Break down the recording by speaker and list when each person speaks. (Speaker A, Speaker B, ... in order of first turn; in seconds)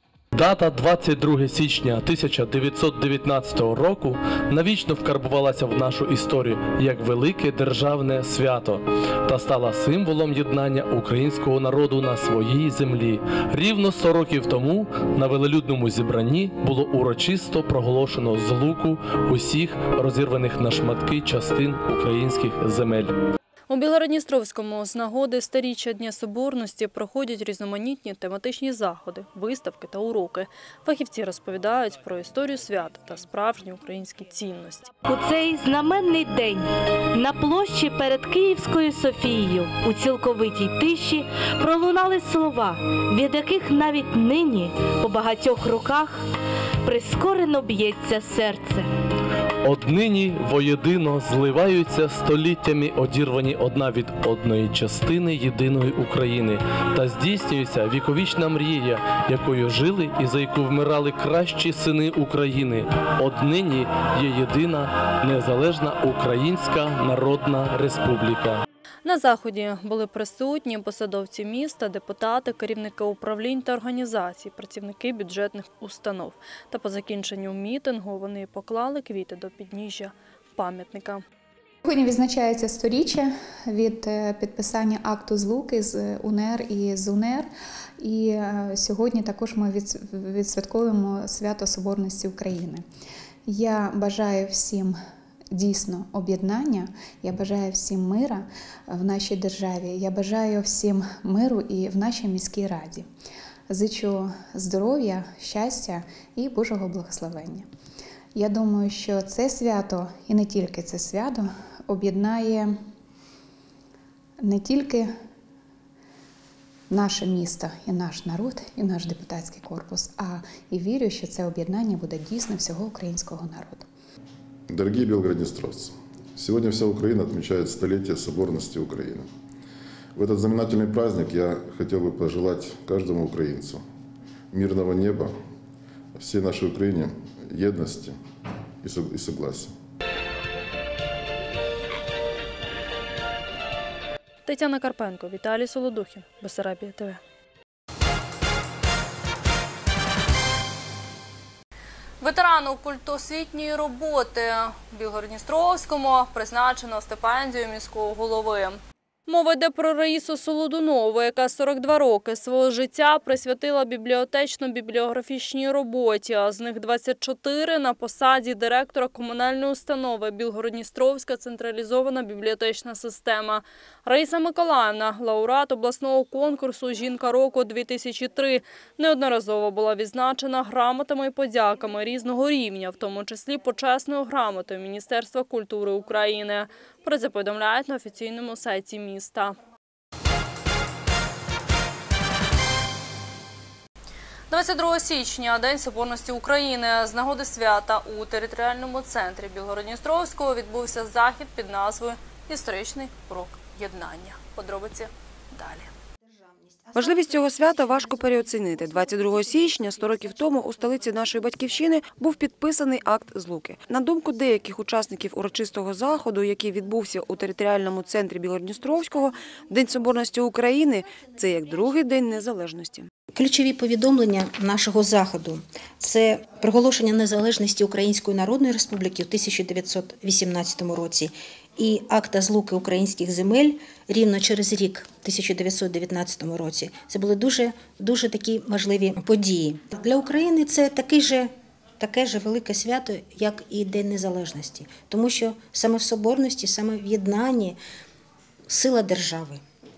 Speaker A: 0.3-23.1, 49.6-68.6
Speaker B: 23.7-34.9, 69.0-81.2, 144.5-147.2, 152.2-189.6, 194.5-205.9
Speaker C: 35.1-46.3, 46.8-48.9
Speaker D: 81.8-92.8, 93.5-95.0, 95.5-103.1, 103.7-107.7, 108.3-112.8, 114.4-115.1, 116.9-123.9
Speaker E: 124.7-129.3, 130.2-133.8, 134.5-135.4, 136.2-138.2, 138.8-139.7
Speaker F: 206.3-207.5, 209.2-210.0, 223.3-247.8, 248.7-249.6
Speaker G: 207.0-223.1